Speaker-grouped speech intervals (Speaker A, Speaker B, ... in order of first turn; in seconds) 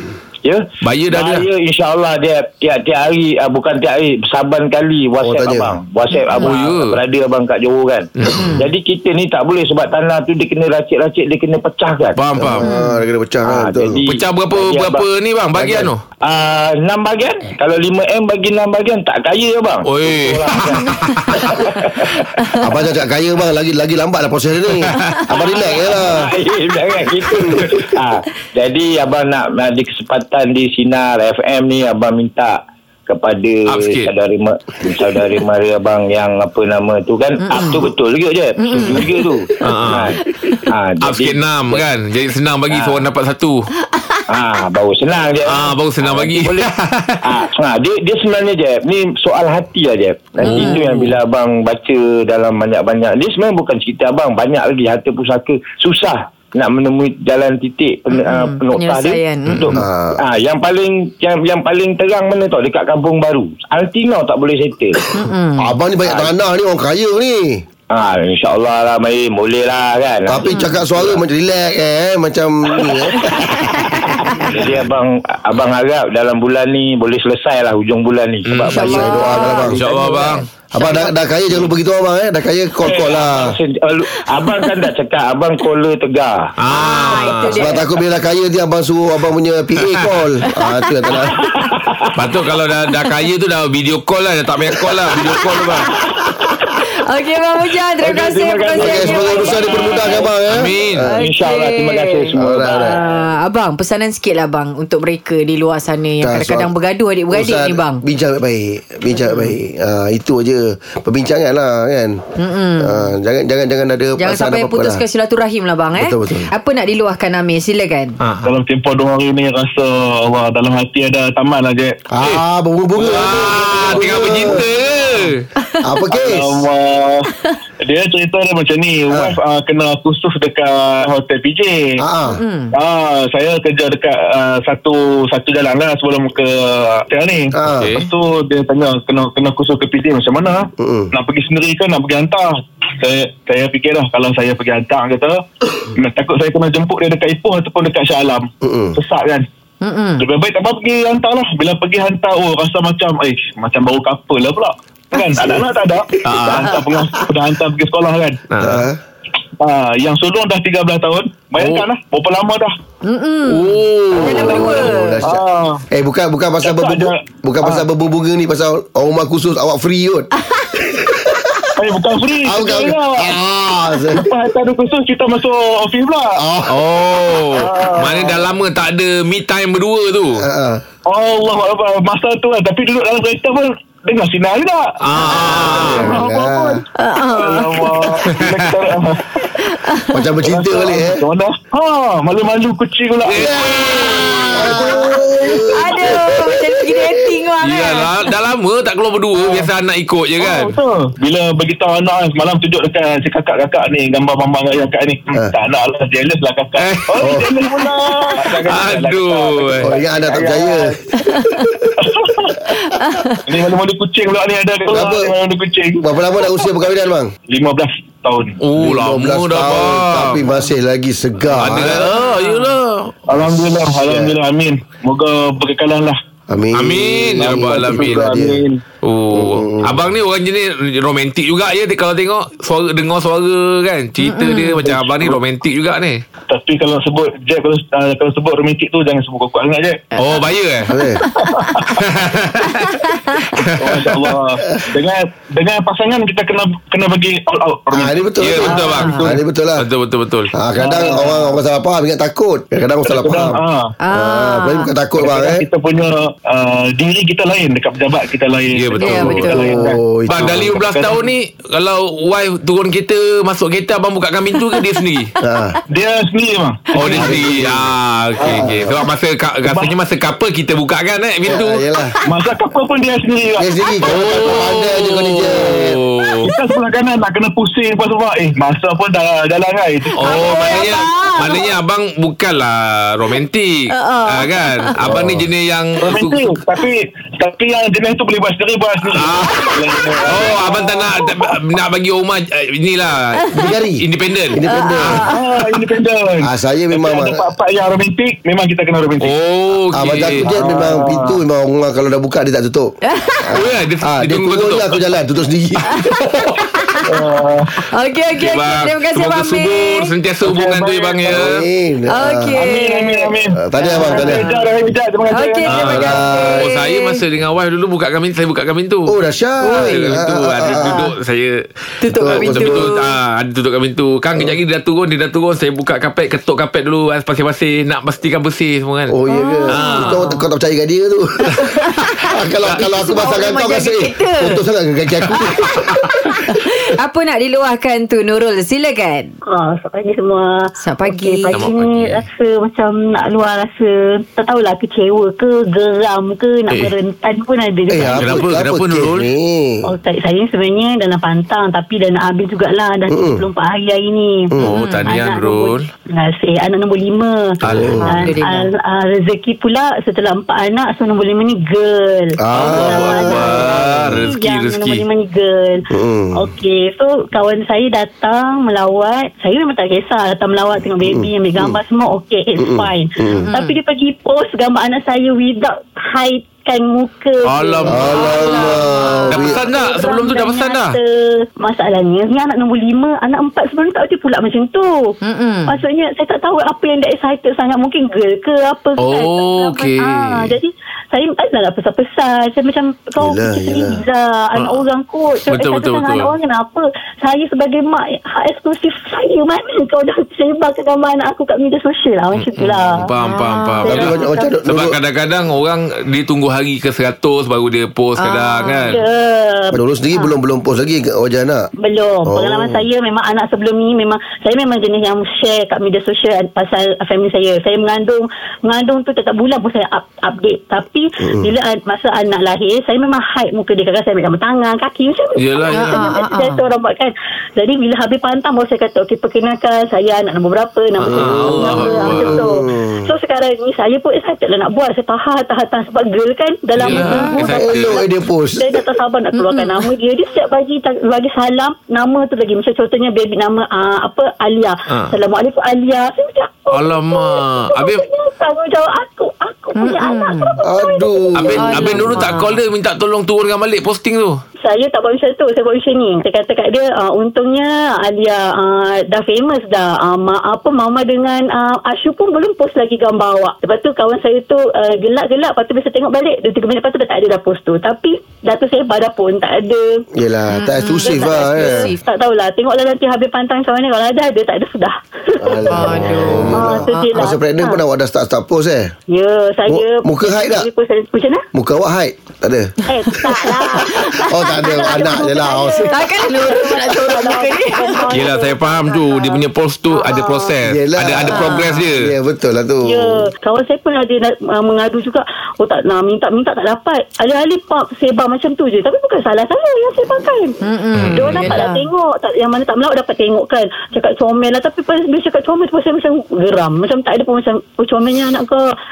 Speaker A: 0.4-12.2, 13.5-22.3, 25.3-41.9, 42.7-43.0, 44.3-65.1, 67.9-70.4, 74.4-79.3, 82.8-86.5, 91.5-92.1, 98.0-100.3, 101.1-103.0
Speaker B: 0.8-1.5, 6.4-7.0, 8.2-8.5, 12.2-12.6, 14.1-16.0, 19.9-21.7, 24.8-25.2, 33.7-34.1, 39.6-40.1, 41.0-43.7, 45.5-47.3, 50.4-51.1, 78.5-79.0, 79.5-80.5, 86.6-87.7, 89.8-90.1, 92.1-96.0, 100.5-101.1, 118.2-118.5, 123.0-125.5, 137.7-138.1, 156.2-156.8, 158.5-158.9, 161.6-161.8, 163.5-164.9, 176.7-180.5, 185.0-186.2, 188.3-188.7, 193.3-195.0, 197.6-200.8, 206.8-207.3, 208.4-209.9, 218.6-220.4, 221.5-223.1, 226.7-228.4, 229.0-236.2, 240.2-240.9, 241.9-244.1, 248.4-250.6, 258.8-259.7, 260.3-265.4, 266.9-271.8, 274.0-276.5, 280.2-286.4, 289.1-289.7, 290.3-295.3, 299.2-300.5, 303.5-305.1, 308.3-311.7, 315.7-319.2, 319.7-321.6, 322.1-329.1, 329.7-330.2, 335.7-335.9, 341.5-342.2, 348.0-349.3, 354.6-355.9, 357.6-358.0, 362.5-365.0, 377.4-378.7, 379.3-381.0, 389.0-390.6, 394.6-394.8, 395.5-396.3, 402.3-409.0, 425.4-426.0, 431.0-432.5, 436.8-438.0, 444.9-445.1, 446.7-448.0, 451.4-454.4, 488.1-492.1, 501.0-501.6
Speaker C: 5.2-5.8, 12.4-14.0, 22.6-26.3, 59.7-60.2, 65.6-67.6, 70.3-74.7, 78.7-79.8, 80.7-83.6, 87.5-91.5, 98.8-101.2, 102.4-103.0, 106.2-106.7, 107.3-112.2, 112.8-115.0, 116.0-116.5, 122.1-125.3, 125.8-126.5, 129.1-129.4, 132.0-132.4, 137.5-137.9, 140.8-141.1, 148.6-149.0, 158.6-159.0, 164.1-171.7, 172.4-174.3, 176.4-176.9, 180.4-180.8, 185.2-186.8, 190.1-191.2, 193.4-193.8, 194.5-197.2, 207.2-207.5, 209.8-212.2, 214.9-215.3, 216.0-217.3, 218.8-222.1, 224.0-224.4, 226.5-228.6, 229.3-230.0, 240.9-241.3, 247.9-249.9, 250.5-253.6, 254.1-255.7, 259.6-260.8, 265.4-265.8, 267.0-269.0, 271.5-272.1, 273.6-276.0, 285.0-285.5, 293.5-295.3, 296.4-297.4, 299.9-306.6, 311.3-312.6, 313.6-314.5, 315.9-316.7, 319.1-321.0, 322.1-322.9, 329.1-336.1, 347.9-349.8, 353.1-353.4, 357.6-358.2, 362.4-364.2, 365.9-366.5, 371.1-371.8, 372.6-373.5, 377.9-379.6, 393.2-394.0, 403.9-405.0, 409.7-411.7, 412.3-412.8, 421.2-421.5, 431.0-433.1, 437.4-438.9, 450.6-452.3, 470.1-471.9, 475.4-478.9, 479.7-480.7, 481.5-483.4, 484.2-485.9, 490.6-493.2
Speaker D: 8.3-8.7, 12.6-13.0, 37.5-37.8, 38.6-39.6, 43.9-44.2, 50.4-50.8, 58.2-59.7, 65.1-65.7, 70.5-70.8, 73.7-74.5, 78.7-81.2, 86.7-87.8, 90.5-91.7, 95.6-100.2, 101.1-108.0, 112.4-113.1, 114.2-118.2, 132.3-132.7, 149.8-150.2, 163.0-165.2, 187.0-188.2, 189.5-190.2, 194.0-194.5, 195.7-198.1, 211.2-211.7, 212.8-213.4, 222.2-222.8, 234.2-234.9, 241.4-241.8, 242.7-243.5, 248.8-249.2, 254.0-254.9, 259.0-259.7, 280.2-281.7, 283.9-284.9, 294.7-295.4, 303.0-303.6, 306.7-307.1, 307.9-310.1, 312.1-314.6, 315.3-317.2, 319.6-321.1, 322.0-323.1, 329.3-330.4, 331.5-334.6, 336.4-339.3, 340.8-341.6, 354.6-355.1, 358.0-358.7, 373.4-373.8, 378.2-379.3, 385.2-385.8, 403.2-404.0, 408.2-409.0, 425.7-426.6, 436.9-437.4, 439.3-439.9, 449.8-450.5, 451.6-452.6, 470.5-472.0, 475.7-477.1, 483.9-484.3, 485.9-488.1, 491.3-491.8, 500.6-501.9
Speaker E: 118.4-122.0, 123.1-124.0, 126.1-127.3, 127.8-132.0, 132.7-145.4, 146.0-149.5, 150.2-158.5, 159.6-162.8, 164.2-165.8, 166.6-167.8, 171.8-173.4, 174.1-176.4, 177.6-178.4, 181.1-189.2, 190.4-193.7, 194.5-195.8, 199.4-199.7, 200.4-211.0, 212.0-212.6, 213.4-216.1, 217.5-218.6, 223.3-226.2, 227.4-228.8, 234.9-235.4, 236.5-240.1, 241.4-242.0, 243.6-249.3, 250.8-251.6, 253.1-253.9, 255.2-261.2, 265.9-267.6, 268.4-268.7, 269.7-269.9, 272.2-273.7, 276.4-280.8, 286.0-291.2, 295.3-299.3, 300.4-301.4, 307.1-307.7, 310.4-311.5, 312.6-316.1
Speaker F: 339.5-348.4, 349.9-354.5, 355.1-385.1, 385.7-403.1, 403.8-404.5, 408.9-410.3, 411.8-452.0, 454.6-470.1, 471.0-477.8, 479.1-481.4, 482.9-489.4, 489.9-490.5, 492.8-500.6, 501.1-508.6